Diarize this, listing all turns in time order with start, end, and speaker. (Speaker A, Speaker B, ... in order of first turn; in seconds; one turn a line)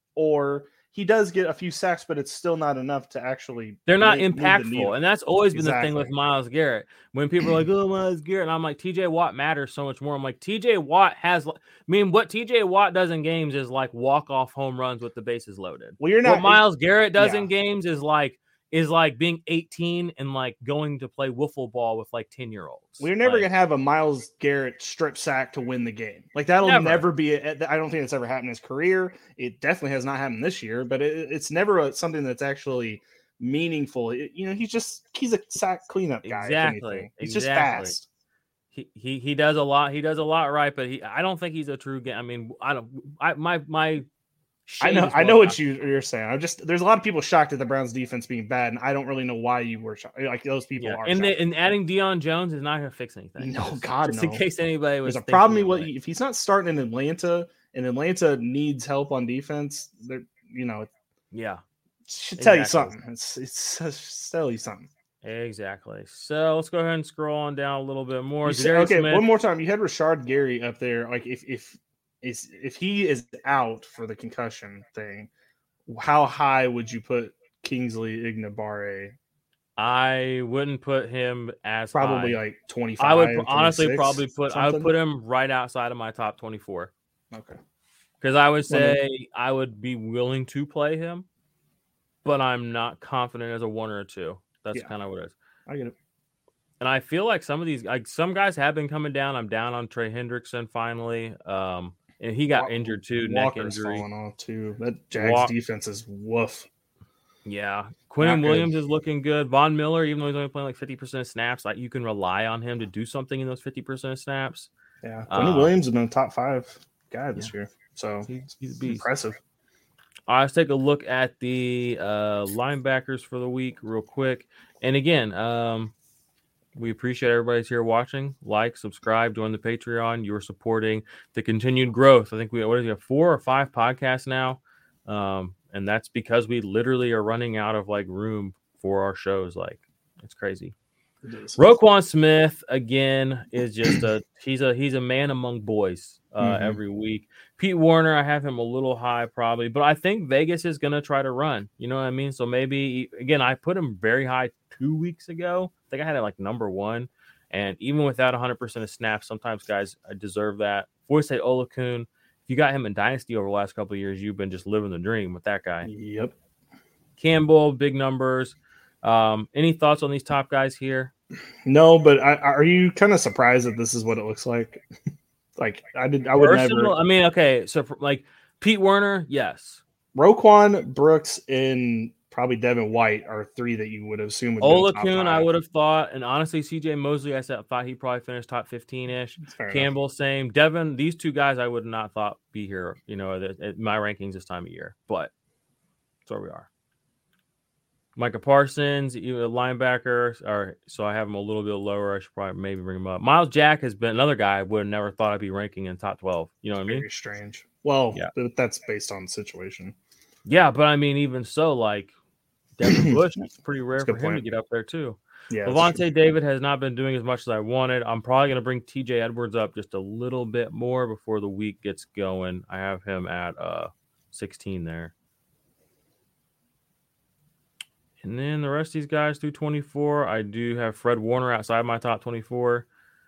Speaker A: 0.1-5.0
Speaker B: 3.9-23.5
Speaker A: 5.5-6.1
Speaker A: 16.0-16.6
Speaker A: 17.2-17.5
Speaker A: 23.0-38.1
Speaker B: 26.6-27.1
Speaker B: 36.2-38.0
Speaker B: 38.7-44.0
Speaker B: 44.7-45.6
Speaker A: 44.8-51.3
Speaker B: 50.8-55.9
Speaker A: 53.4-54.4
Speaker A: 55.0-60.9
Speaker B: 61.3-61.6
Speaker A: 62.1-64.9
Speaker B: 62.4-62.9
Speaker B: 65.2-69.2
Speaker A: 68.4-75.3
Speaker A: 75.9-79.2
Speaker B: 79.8-82.4
Speaker A: 81.9-84.9
Speaker B: 83.0-86.9
Speaker A: 87.3-87.6
Speaker B: 88.2-91.3
Speaker A: 88.7-89.0
Speaker B: 92.2-95.3
Speaker A: 95.7-96.0
Speaker B: 96.8-104.0
Speaker A: 102.6-106.7
Speaker B: 105.2-105.5
Speaker B: 107.5-114.7
Speaker A: 108.2-108.7
Speaker A: 115.0-118.3
Speaker B: 115.3-115.7
Speaker B: 118.3-119.1
Speaker A: 118.9-119.4
Speaker B: 120.3-125.9
Speaker B: 126.8-140.7
Speaker A: 141.2-141.7
Speaker B: 141.6-165.9
Speaker A: 146.4-146.8
Speaker A: 165.8-166.3
Speaker B: 167.2-171.1
Speaker A: 171.7-174.8
Speaker A: 175.6-176.9
Speaker B: 176.4-179.8
Speaker A: 180.2-185.5
Speaker B: 184.6-195.3
Speaker A: 189.4-189.9
Speaker B: 196.3-196.7
Speaker B: 198.2-207.1
Speaker A: 206.9-209.9
Speaker B: 210.4-212.1
Speaker B: 212.8-225.1
Speaker A: 212.8-213.2
Speaker A: 214.0-214.4
Speaker A: 215.5-216.0
Speaker B: 228.2-232.9